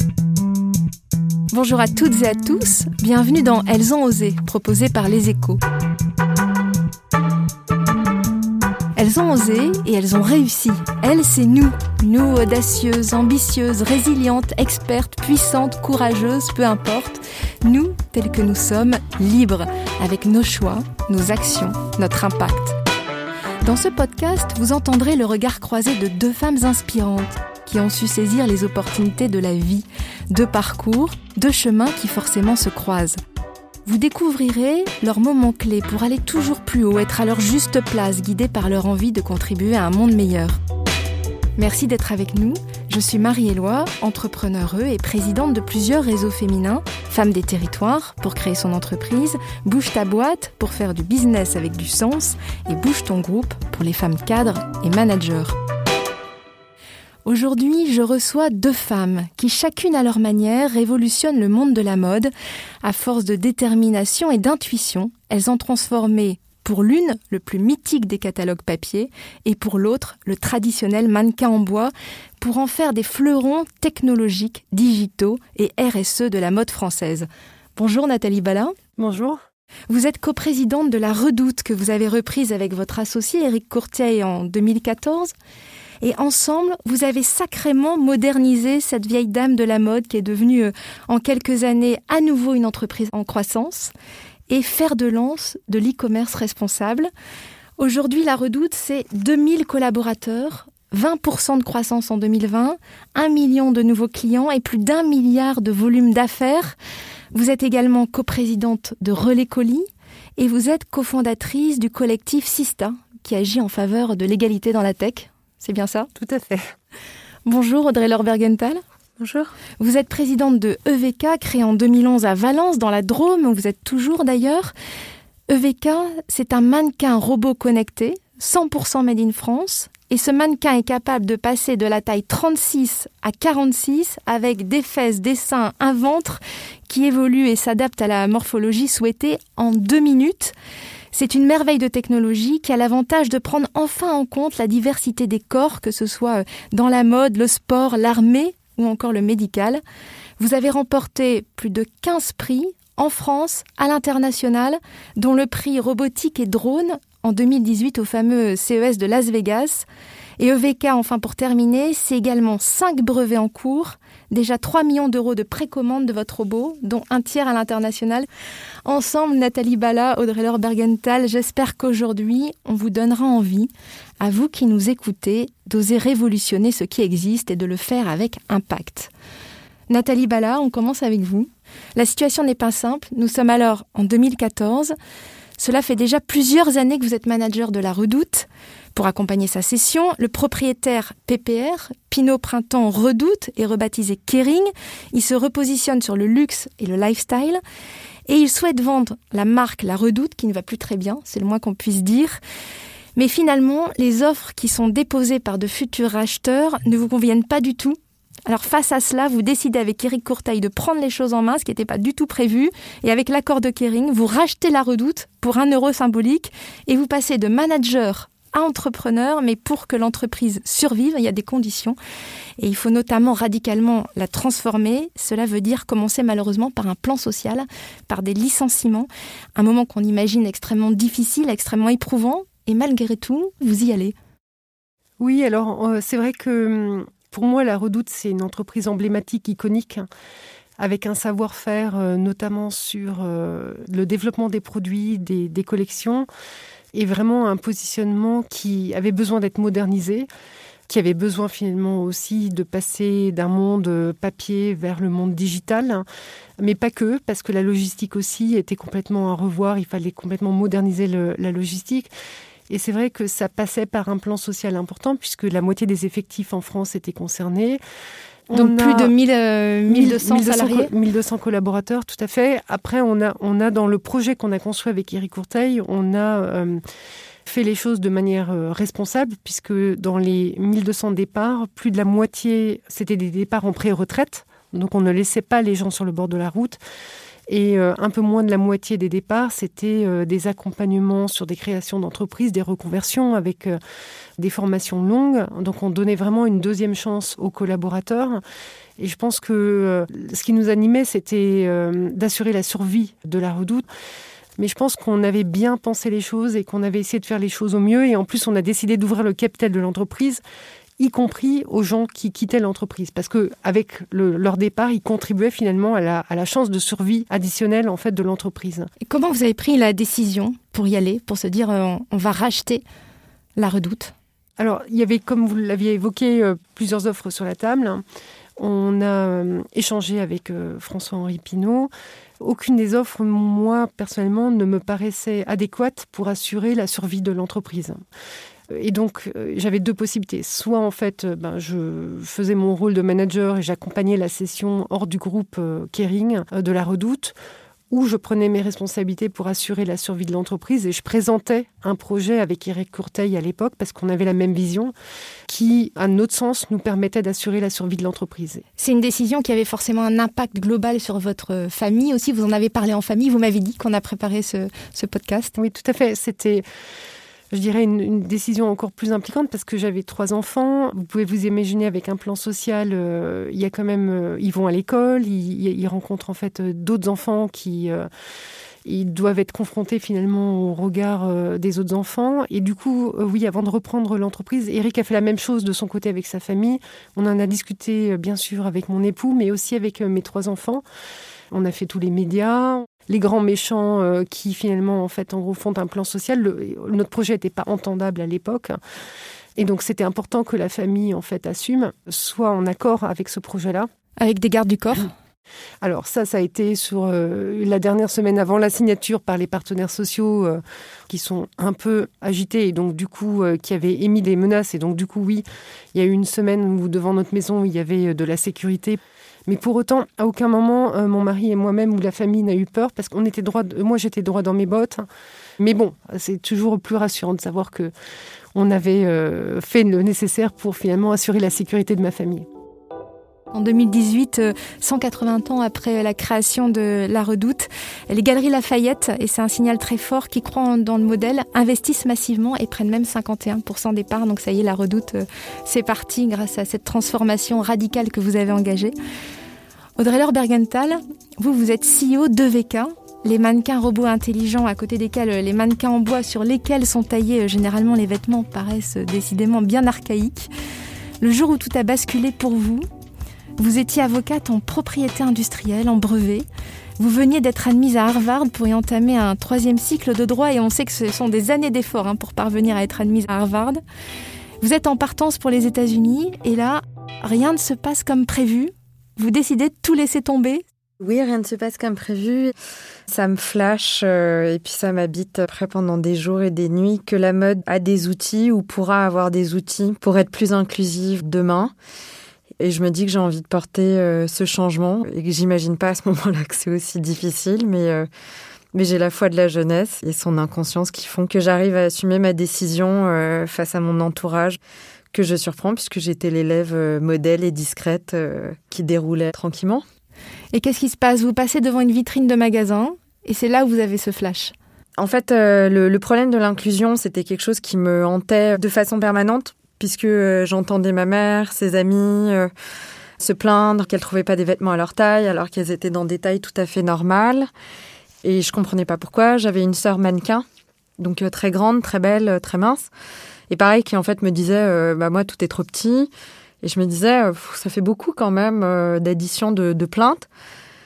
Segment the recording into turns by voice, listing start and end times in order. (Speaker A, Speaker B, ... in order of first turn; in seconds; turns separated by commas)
Speaker A: 1.5-5.6, Speaker A: 9.0-22.8, Speaker A: 23.6-33.2, Speaker A: 33.9-40.6, Speaker A: 41.6-55.5, Speaker A: 57.2-62.3, Speaker A: 62.8-78.8, Speaker B: 79.0-79.4, Speaker A: 79.9-85.3, Speaker A: 86.0-93.9, Speaker A: 94.5-97.1, Speaker A: 97.8-106.8, Speaker A: 107.3-116.1, Speaker B: 116.2-116.7, Speaker A: 117.5-118.8, Speaker C: 119.2-119.5, Speaker A: 119.8-124.7, Speaker A: 125.5-140.5, Speaker A: 141.1-149.8, Speaker A: 150.4-159.9, Speaker A: 160.4-168.3, Speaker A: 168.8-179.1, Speaker A: 179.9-184.9, Speaker A: 185.6-197.6, Speaker A: 198.3-202.4, Speaker A: 203.2-222.0, Speaker A: 222.6-234.2, Speaker B: 235.2-240.1, Speaker B: 240.8-246.3, Speaker B: 246.9-250.3, Speaker B: 250.9-256.1, Speaker B: 256.6-262.1, Speaker B: 262.7-267.8, Speaker B: 268.5-269.1, Speaker A: 268.5-270.9, Speaker B: 269.9-276.8, Speaker B: 277.5-286.8, Speaker B: 287.5-293.8, Speaker B: 294.4-298.4, Speaker B: 299.0-303.9, Speaker B: 304.6-310.4, Speaker B: 311.0-318.9, Speaker A: 319.0-322.9, Speaker A: 323.6-324.1, Speaker B: 324.6-328.0, Speaker B: 328.6-338.0, Speaker B: 338.7-347.4, Speaker B: 347.9-354.9, Speaker B: 355.5-358.6, Speaker A: 358.8-365.6, Speaker B: 365.6-366.6, Speaker B: 367.5-378.1, Speaker B: 378.9-390.8, Speaker B: 391.5-398.8, Speaker B: 399.6-403.9, Speaker A: 404.2-405.1, Speaker B: 405.8-425.1, Speaker B: 425.6-427.9, Speaker B: 428.6-432.5, Speaker A: 433.5-448.9, Speaker A: 450.0-460.5, Speaker A: 461.2-462.9, Speaker A: 463.6-466.5, Speaker A: 467.0-473.8, Speaker A: 474.6-480.6, Speaker C: 481.0-482.5, Speaker C: 483.1-491.7, Speaker C: 492.6-498.1, Speaker C: 498.7-504.6, Speaker C: 505.1-509.9, Speaker A: 510.5-514.5, Speaker C: 515.0-522.5, Speaker C: 523.2-527.5, Speaker C: 528.2-530.5, Speaker C: 531.0-532.9, Speaker C: 533.5-536.1, Speaker C: 536.6-540.3